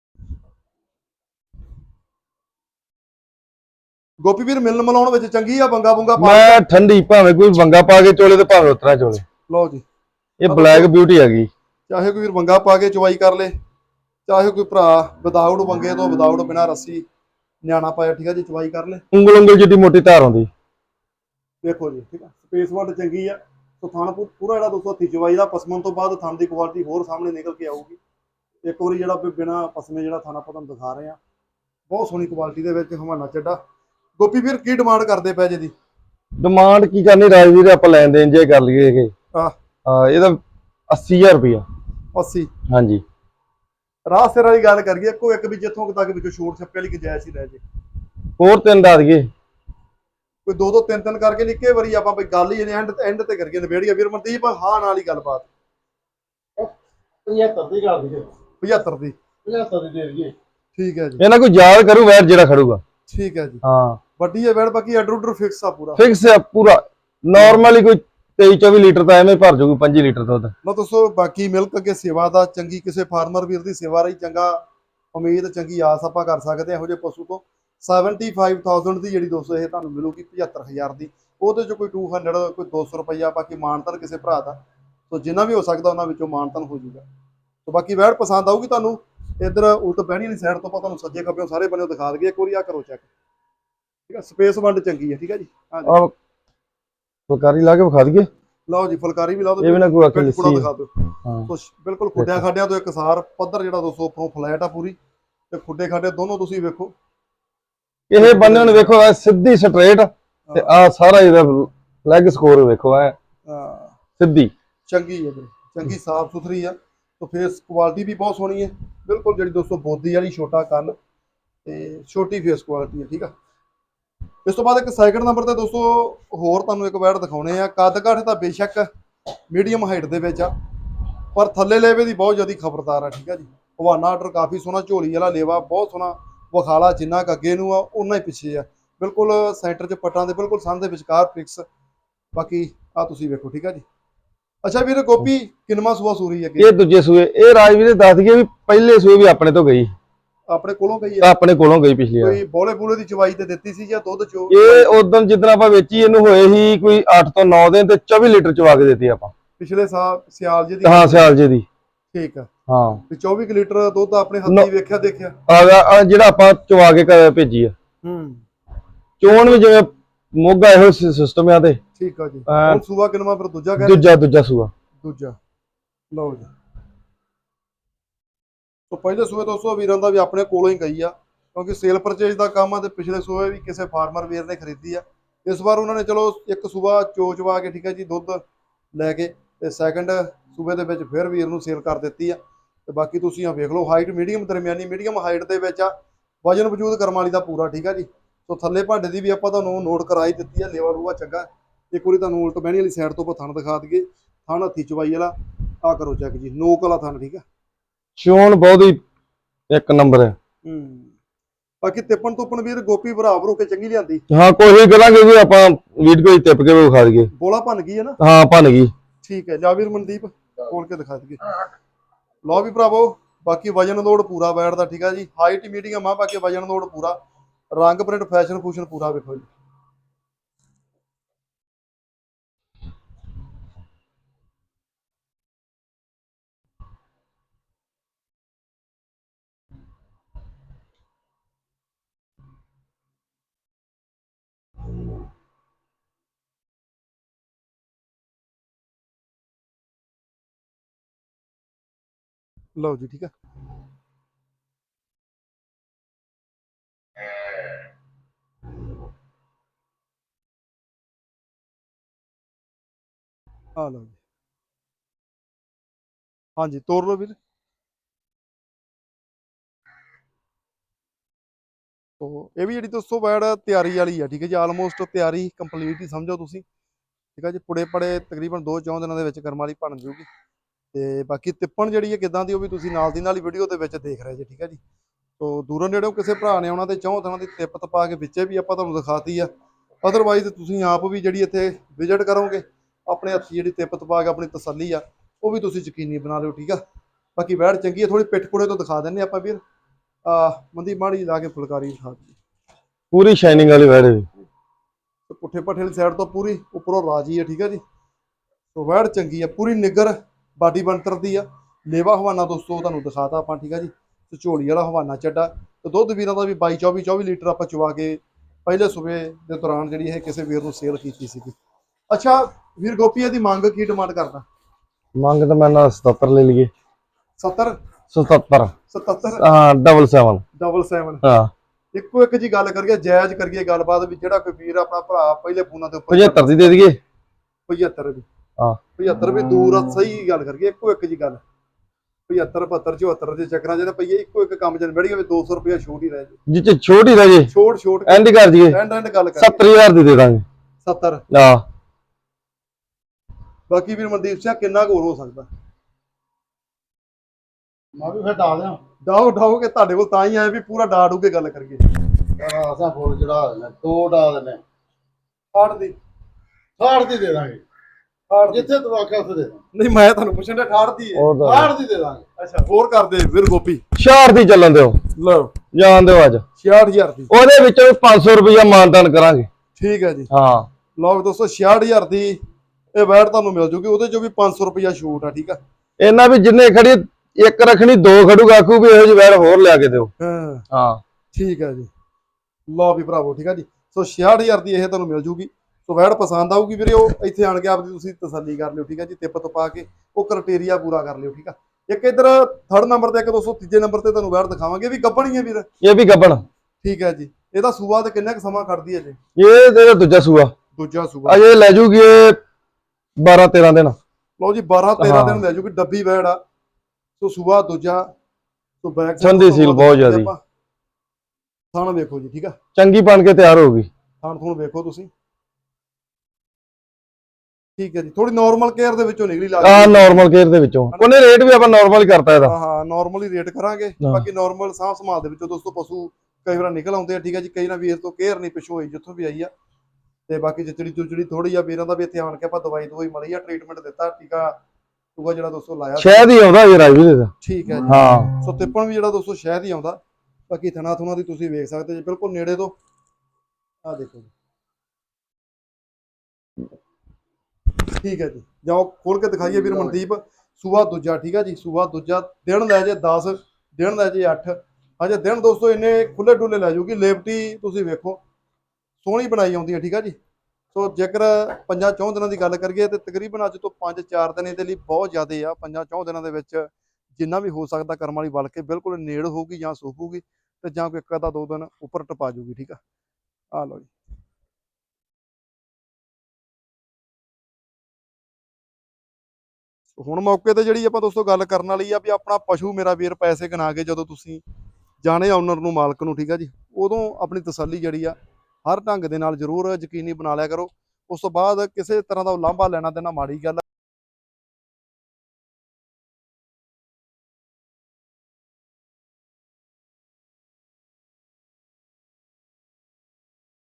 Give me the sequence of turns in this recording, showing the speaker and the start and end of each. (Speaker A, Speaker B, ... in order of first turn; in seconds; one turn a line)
Speaker A: 4.2-6.6
Speaker B: 6.2-9.2
Speaker A: 9.5-9.8
Speaker B: 10.4-11.5
Speaker A: 10.5-10.9
Speaker A: 11.9-13.5
Speaker A: 14.3-17.0
Speaker A: 17.6-19.0
Speaker B: 19.1-20.5
Speaker A: 21.6-28.0
Speaker A: 28.6-31.2
Speaker A: 31.9-33.6
Speaker A: 34.2-35.7
Speaker B: 36.4-39.1
Speaker B: 39.8-41.6
Speaker A: 42.1-42.5
Speaker B: 42.7-43.0
Speaker A: 44.0-47.6
Speaker B: 48.4-49.3
Speaker A: 50.4-55.5
Speaker C: 57.2-58.3
Speaker A: 58.6-59.1
Speaker C: 59.4-60.3
Speaker A: 60.7-61.2
Speaker B: 61.2-62.8
Speaker A: 63.1-63.6
Speaker B: 63.6-64.0
Speaker A: 64.2-66.0
Speaker B: 66.0-70.5
Speaker A: 67.3-67.6
Speaker A: 70.6-74.6
Speaker A: 75.1-84.6
Speaker A: 85.1-87.0
Speaker A: 87.6-93.1
Speaker A: 94.1-96.0
Speaker B: 95.8-96.1
Speaker B: 97.3-98.3
Speaker A: 98.7-100.9
Speaker B: 99.6-100.7
Speaker B: 101.2-101.5
Speaker A: 101.5-105.0
Speaker A: 105.5-106.9
Speaker B: 108.1-113.1
Speaker A: 108.2-108.9
Speaker A: 113.5-114.0
Speaker B: 114.2-114.5
Speaker A: 114.9-121.0
Speaker A: 121.6-123.3
Speaker A: 124.4-128.9
Speaker A: 129.5-130.5
Speaker A: 131.3-141.6
Speaker A: 142.3-143.8
Speaker A: 144.6-146.7
Speaker B: 146.6-149.9
Speaker A: 150.5-151.3
Speaker B: 151.2-152.4
Speaker A: 152.2-154.9
Speaker B: 154.5-159.3
Speaker A: 159.6-161.3
Speaker B: 160.8-161.6
Speaker A: 162.1-162.5
Speaker B: 162.7-163.0
Speaker A: 163.1-165.3
Speaker B: 165.5-167.7
Speaker A: 168.0-168.4
Speaker B: 169.2-171.8
Speaker A: 172.0-174.1
Speaker B: 172.5-172.8
Speaker B: 173.8-174.7
Speaker A: 175.0-175.4
Speaker A: 176.1-176.5
Speaker A: 178.9-188.4
Speaker A: 188.9-207.4
Speaker B: 208.2-209.0
Speaker B: 209.7-210.3
Speaker A: 210.6-211.1
Speaker A: 211.8-214.2
Speaker B: 214.3-217.3
Speaker A: 217.3-218.2
Speaker B: 218.2-218.9
Speaker A: 219.2-221.4
Speaker A: 222.4-227.2
Speaker A: 227.7-229.5
Speaker A: 252.8-253.3
Speaker A: 263.8-264.2
Speaker A: 266.6-267.4
Speaker A: 272.2-276.6
Speaker A: 277.4-280.3
Speaker A: 280.9-284.8
Speaker A: 285.4-289.5
Speaker A: 290.0-296.8
Speaker A: 297.4-299.6
Speaker A: 300.2-302.4
Speaker B: 303.1-304.3
Speaker A: 305.3-307.8
Speaker A: 308.7-321.5
Speaker A: 322.1-324.4
Speaker B: 325.1-326.7
Speaker A: 327.4-327.8
Speaker B: 328.1-328.7
Speaker A: 328.9-329.4
Speaker B: 329.4-330.4
Speaker A: 330.6-331.2
Speaker B: 331.2-331.5
Speaker A: 331.9-336.8
Speaker B: 336.1-337.0
Speaker A: 337.7-338.2
Speaker A: 339.0-341.4
Speaker A: 342.3-346.4
Speaker B: 346.5-347.5
Speaker A: 347.5-349.6
Speaker B: 348.1-348.8
Speaker B: 349.4-350.4
Speaker A: 350.8-351.2
Speaker B: 351.3-351.6
Speaker A: 353.7-355.5
Speaker C: 357.9-358.8
Speaker A: 359.0-361.9
Speaker C: 362.4-364.6
Speaker A: 365.5-365.9
Speaker C: 366.8-367.6
Speaker A: 368.3-368.7
Speaker C: 368.5-369.6
Speaker A: 369.7-371.3
Speaker B: 371.1-371.7
Speaker C: 371.4-372.2
Speaker A: 372.4-373.8
Speaker B: 373.9-375.0
Speaker A: 375.1-375.5
Speaker B: 375.7-376.4
Speaker A: 376.6-377.3
Speaker B: 377.3-379.5
Speaker A: 379.8-380.3
Speaker B: 380.3-380.7
Speaker A: 380.9-382.4
Speaker A: 382.9-385.6
Speaker B: 386.0-390.1
Speaker A: 390.2-390.6
Speaker B: 390.7-391.0
Speaker A: 391.3-391.9
Speaker A: 392.7-405.7
Speaker B: 405.8-406.4
Speaker A: 406.8-409.2
Speaker B: 409.4-410.5
Speaker A: 410.8-411.4
Speaker B: 411.2-412.4
Speaker B: 413.2-414.0
Speaker A: 414.4-416.4
Speaker B: 415.0-415.4
Speaker A: 417.2-418.1
Speaker A: 418.8-420.4
Speaker B: 419.2-420.3
Speaker A: 421.7-422.6
Speaker B: 422.8-423.9
Speaker A: 424.2-425.1
Speaker A: 427.8-430.3
Speaker B: 429.6-432.5
Speaker A: 432.5-439.5
Speaker A: 440.3-444.6
Speaker A: 445.1-446.3
Speaker B: 446.0-447.3
Speaker A: 447.4-452.7
Speaker B: 447.9-448.3
Speaker A: 453.8-454.3
Speaker A: 458.0-468.2
Speaker A: 469.0-470.1
Speaker A: 470.7-482.8
Speaker A: 483.5-483.9
Speaker A: 490.0-494.4
Speaker A: 495.0-503.6